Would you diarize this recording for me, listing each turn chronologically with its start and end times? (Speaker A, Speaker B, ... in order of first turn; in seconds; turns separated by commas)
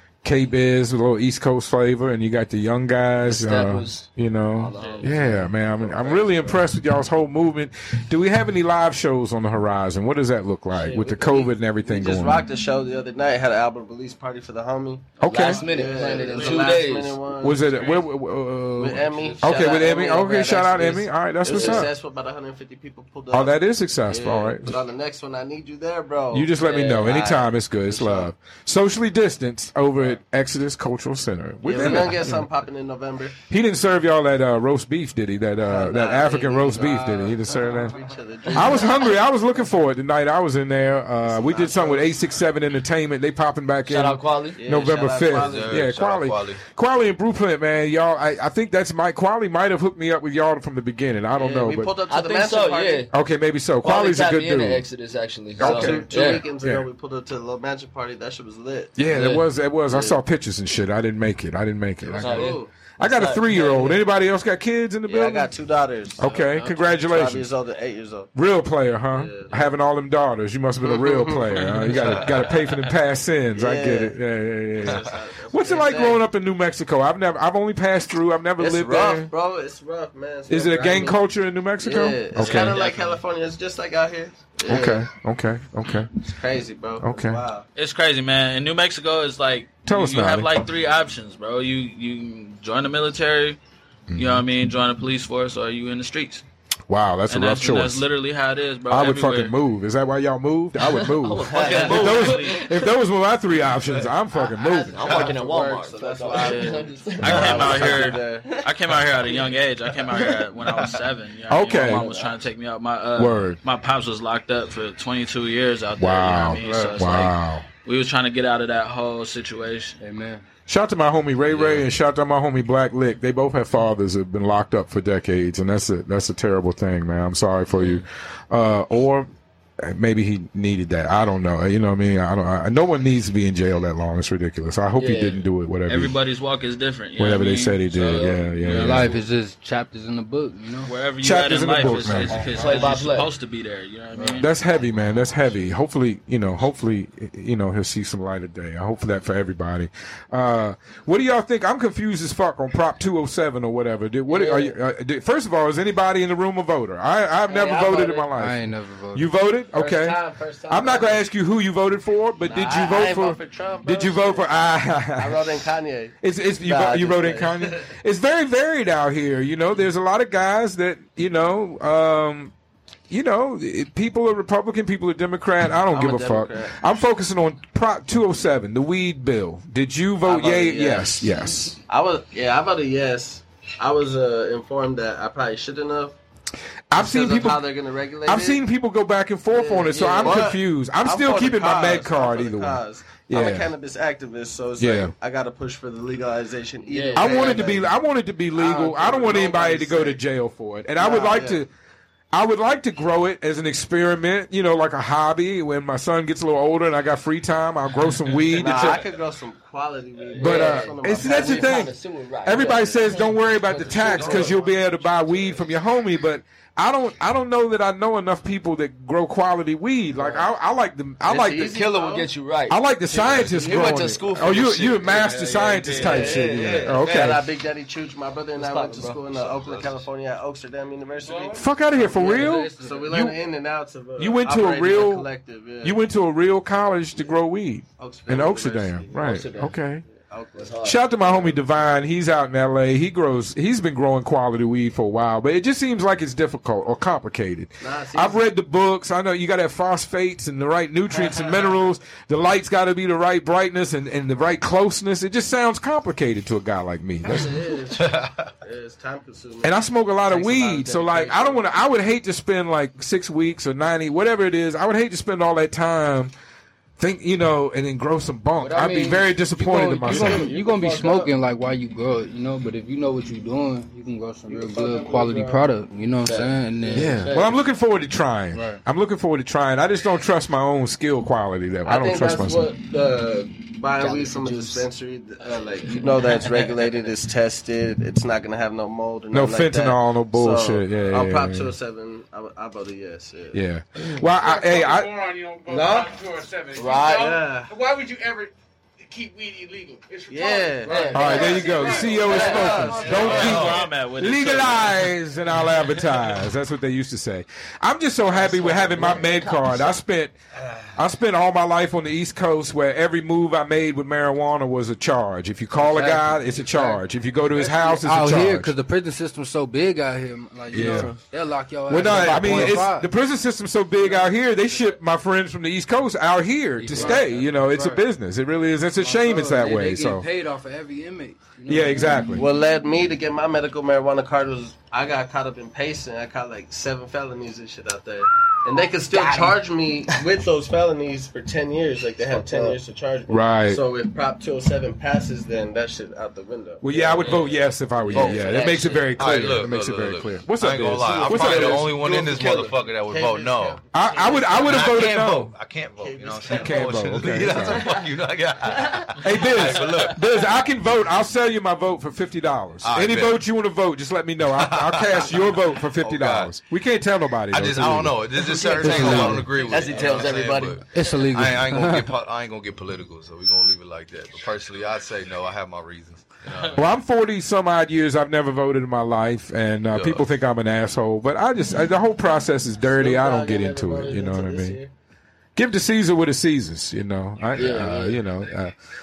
Speaker A: 0.2-12.4, Speaker B: 3.2-5.5, Speaker C: 4.8-5.0, Speaker D: 5.8-6.6, Speaker D: 10.7-17.7, Speaker A: 15.2-15.6, Speaker B: 15.2-17.2, Speaker C: 15.8-16.8, Speaker A: 17.4-21.9, Speaker D: 18.7-28.3, Speaker B: 21.5-21.8, Speaker A: 23.3-24.8, Speaker A: 26.3-32.4, Speaker D: 31.6-33.4, Speaker A: 33.5-38.0, Speaker D: 35.6-39.2, Speaker B: 38.5-38.8, Speaker A: 38.5-51.9, Speaker D: 41.2-42.2, Speaker B: 43.9-44.6, Speaker D: 44.6-45.9, Speaker E: 45.3-46.6, Speaker D: 51.3-53.1, Speaker B: 52.1-53.1, Speaker A: 53.1-54.9, Speaker B: 53.8-56.4, Speaker A: 55.6-56.9, Speaker D: 55.6-59.0, Speaker A: 59.0-65.5, Speaker B: 59.1-59.4, Speaker D: 59.9-60.2, Speaker D: 62.0-62.7, Speaker B: 62.2-64.0, Speaker D: 65.0-68.3, Speaker A: 66.2-67.5, Speaker A: 68.3-79.3, Speaker D: 69.1-69.6, Speaker D: 70.8-72.5, Speaker D: 73.5-74.2, Speaker D: 74.8-76.2, Speaker D: 78.6-81.2, Speaker A: 80.5-82.8, Speaker D: 81.8-85.1, Speaker C: 82.3-83.2, Speaker A: 84.7-86.1, Speaker D: 86.2-87.7, Speaker A: 87.0-87.4, Speaker C: 87.7-93.6, Speaker A: 89.8-90.6, Speaker A: 94.1-94.4, Speaker C: 94.1-96.4, Speaker A: 96.9-98.0, Speaker C: 97.3-99.5, Speaker A: 98.9-105.3, Speaker B: 100.8-102.8, Speaker C: 101.5-102.6, Speaker D: 101.6-102.2, Speaker D: 104.5-108.5, Speaker B: 104.7-108.6, Speaker C: 107.2-120.0, Speaker A: 107.3-107.7, Speaker A: 111.5-112.1, Speaker B: 111.7-112.3, Speaker A: 113.2-113.6, Speaker A: 116.0-117.7, Speaker F: 116.6-117.0, Speaker F: 120.0-120.4, Speaker A: 120.7-129.3, Speaker C: 121.5-121.8, Speaker A: 129.8-136.2, Speaker B: 135.0-135.4, Speaker C: 135.9-139.2, Speaker A: 137.2-139.1, Speaker B: 138.0-138.4, Speaker F: 138.6-140.9, Speaker C: 140.8-144.5, Speaker A: 141.2-142.4, Speaker B: 142.5-143.3, Speaker F: 144.2-144.4, Speaker A: 144.4-165.5, Speaker D: 154.3-154.7, Speaker D: 157.5-158.3, Speaker B: 157.5-158.0, Speaker F: 158.3-159.3, Speaker D: 159.7-161.2, Speaker D: 162.4-164.6, Speaker D: 165.2-167.8, Speaker A: 166.2-172.5, Speaker A: 173.1-181.8, Speaker D: 175.9-176.8, Speaker D: 180.2-186.2, Speaker A: 186.9-187.6, Speaker D: 186.9-188.6, Speaker A: 188.2-193.7, Speaker D: 189.5-197.9, Speaker B: 189.9-190.5, Speaker A: 194.8-195.1, Speaker B: 196.9-197.7, Speaker A: 197.1-201.7, Speaker D: 198.5-200.2, Speaker D: 201.0-201.6, Speaker A: 202.3-209.0, Speaker D: 208.5-211.9, Speaker B: 210.3-214.6, Speaker A: 210.4-211.9, Speaker A: 212.4-221.8, Speaker D: 213.7-215.6, Speaker D: 221.2-222.3, Speaker B: 221.6-227.3, Speaker A: 222.7-227.4, Speaker D: 223.2-224.6, Speaker C: 225.1-226.3, Speaker D: 226.0-236.0, Speaker B: 228.6-229.7, Speaker E: 229.4-229.9, Speaker A: 231.5-233.4, Speaker F: 231.9-233.2, Speaker B: 232.2-232.4, Speaker A: 234.2-235.3, Speaker A: 235.8-240.0, Speaker D: 238.0-239.5, Speaker B: 239.1-239.7, Speaker D: 240.1-240.7, Speaker B: 240.6-241.5, Speaker A: 240.8-257.7, Speaker D: 247.8-248.4, Speaker D: 257.2-259.8, Speaker E: 258.0-258.5, Speaker A: 259.6-266.3, Speaker B: 260.3-261.6, Speaker A: 267.0-270.5, Speaker B: 268.6-269.3, Speaker F: 269.6-277.3, Speaker D: 270.0-271.3, Speaker D: 274.5-275.6, Speaker B: 276.2-277.6, Speaker A: 276.9-282.7, Speaker F: 278.5-278.8, Speaker D: 281.8-293.6, Speaker B: 284.0-284.9, Speaker B: 285.8-286.1, Speaker C: 286.4-286.7, Speaker A: 289.3-291.7, Speaker A: 293.5-295.2, Speaker G: 294.4-298.5, Speaker D: 295.7-296.1, Speaker B: 296.8-297.3, Speaker D: 296.9-297.7, Speaker G: 299.0-303.3, Speaker D: 300.3-303.7, Speaker B: 300.9-303.5, Speaker A: 301.1-310.3, Speaker C: 303.0-305.1, Speaker C: 305.7-306.1, Speaker B: 308.3-310.0, Speaker A: 310.9-318.7, Speaker F: 315.7-317.0, Speaker F: 317.6-323.1, Speaker A: 320.7-321.1, Speaker A: 321.9-330.3, Speaker F: 326.8-328.0, Speaker F: 329.0-332.3, Speaker A: 331.7-332.4, Speaker D: 332.3-347.5, Speaker B: 339.1-339.6, Speaker B: 342.4-342.8, Speaker A: 343.3-343.8, Speaker A: 346.8-351.9, Speaker B: 348.1-349.1, Speaker D: 348.1-348.7, Speaker E: 349.2-353.8, Speaker B: 351.1-352.7, Speaker D: 351.2-355.2, Speaker A: 353.9-355.6, Speaker E: 354.4-360.2, Speaker D: 355.9-357.7, Speaker A: 356.5-357.9, Speaker A: 359.2-368.4, Speaker E: 362.8-363.4, Speaker E: 364.6-365.4, Speaker E: 366.0-366.5, Speaker E: 367.5-376.8, Speaker B: 368.4-370.8, Speaker F: 368.8-369.6, Speaker A: 369.0-369.3, Speaker D: 369.7-370.3, Speaker F: 370.9-372.1, Speaker A: 376.7-384.8, Speaker E: 379.9-380.2, Speaker D: 382.9-384.9, Speaker A: 385.6-388.7, Speaker B: 387.5-388.2